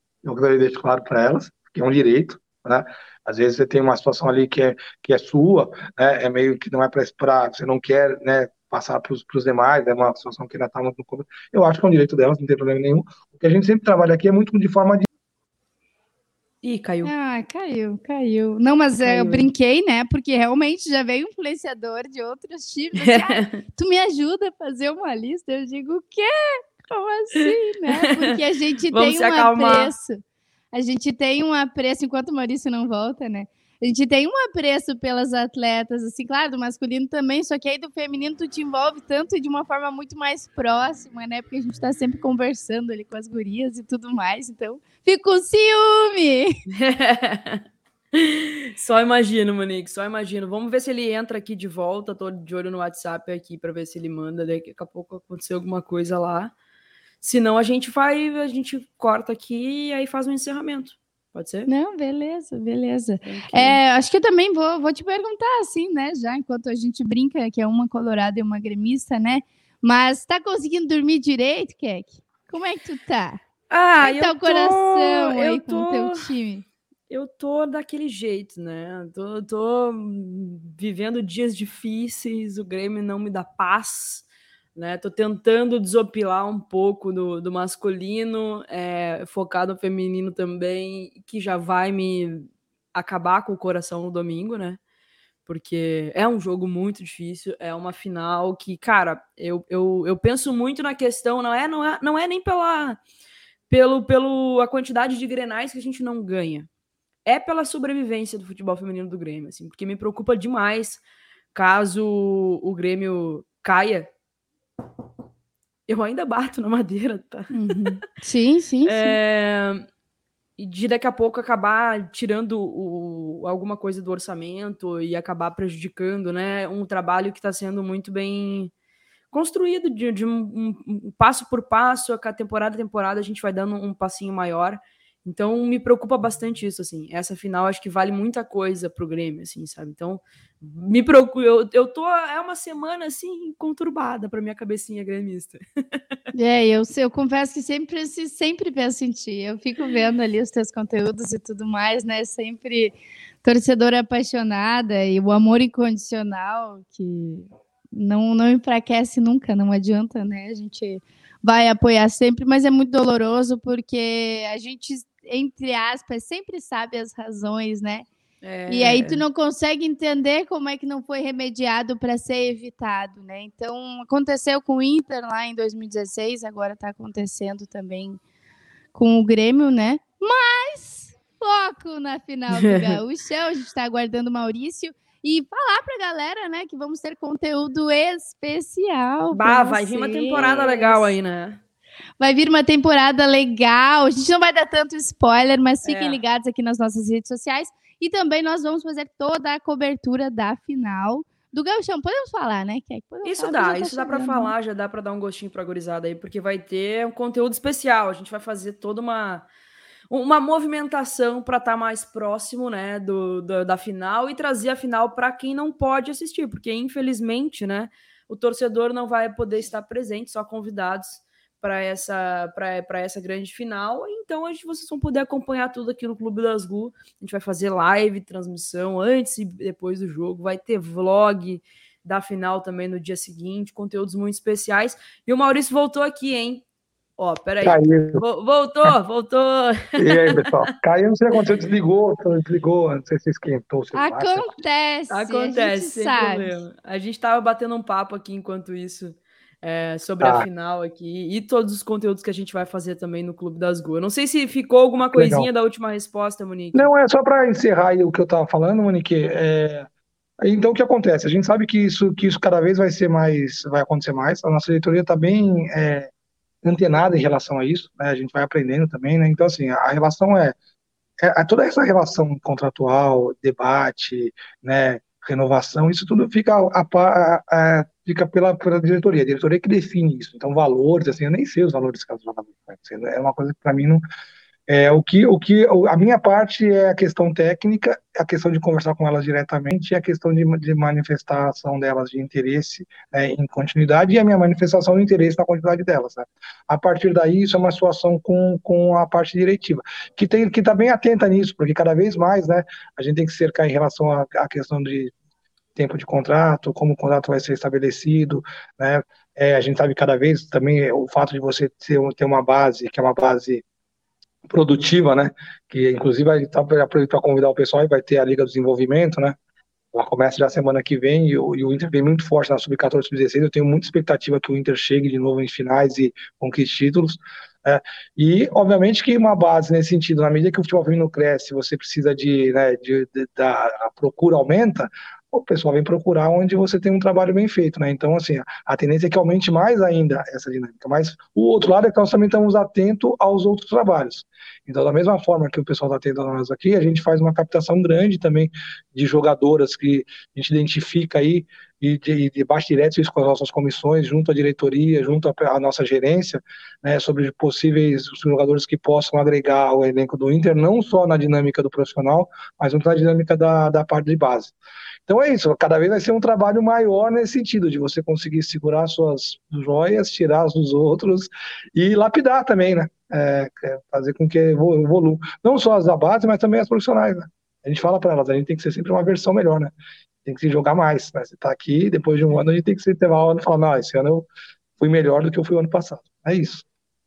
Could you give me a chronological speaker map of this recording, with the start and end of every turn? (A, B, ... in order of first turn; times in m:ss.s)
0:00.2-0:15.1 A
0:16.6-0:17.1 B
0:17.0-0:30.2 C
0:19.0-0:19.5 B
0:23.0-0:23.6 B
0:27.4-0:28.4 B
0:28.9-0:29.9 B
0:30.7-0:46.6 C
0:46.7-0:47.6 B
0:48.2-0:56.5 B
0:57.2-1:01.7 B
1:01.7-1:13.4 C
1:03.2-1:03.8 B
1:13.7-1:16.3 B
1:14.0-1:16.6 C
1:17.1-1:34.8 B
1:35.5-1:43.0 B
1:43.7-1:46.7 B
1:47.2-1:51.0 B
1:51.5-1:54.1 B
1:55.9-1:58.0 B
1:57.5-1:59.2 C
1:58.9-1:59.9 B
2:00.6-2:08.7 B
2:09.3-2:26.0 B
2:26.3-2:48.1 C
2:48.4-2:49.2 B
2:48.7-2:58.2 C
2:58.9-3:11.2 C
3:02.5-3:03.0 B
3:09.3-3:11.6 B
3:12.2-3:24.5 C
3:15.8-3:16.2 B
3:23.2-3:29.5 B
3:30.1-3:56.6 B
3:57.2-4:00.5 B
3:57.6-3:58.2 A
4:00.0-4:04.6 A
4:03.9-4:06.6 C
4:05.1-4:16.9 B
4:10.2-4:10.5 A
4:15.1-4:15.5 A
4:16.7-4:19.9 A
4:20.4-4:26.1 A
4:26.6-4:30.6 A
4:31.2-4:44.0 A
4:44.7-5:05.1 A
5:05.8-5:13.6 A
5:14.5-5:19.4 A
5:19.9-6:04.6 A
6:05.1-6:19.7 A
6:20.3-6:24.3 A
6:24.8-6:26.6 A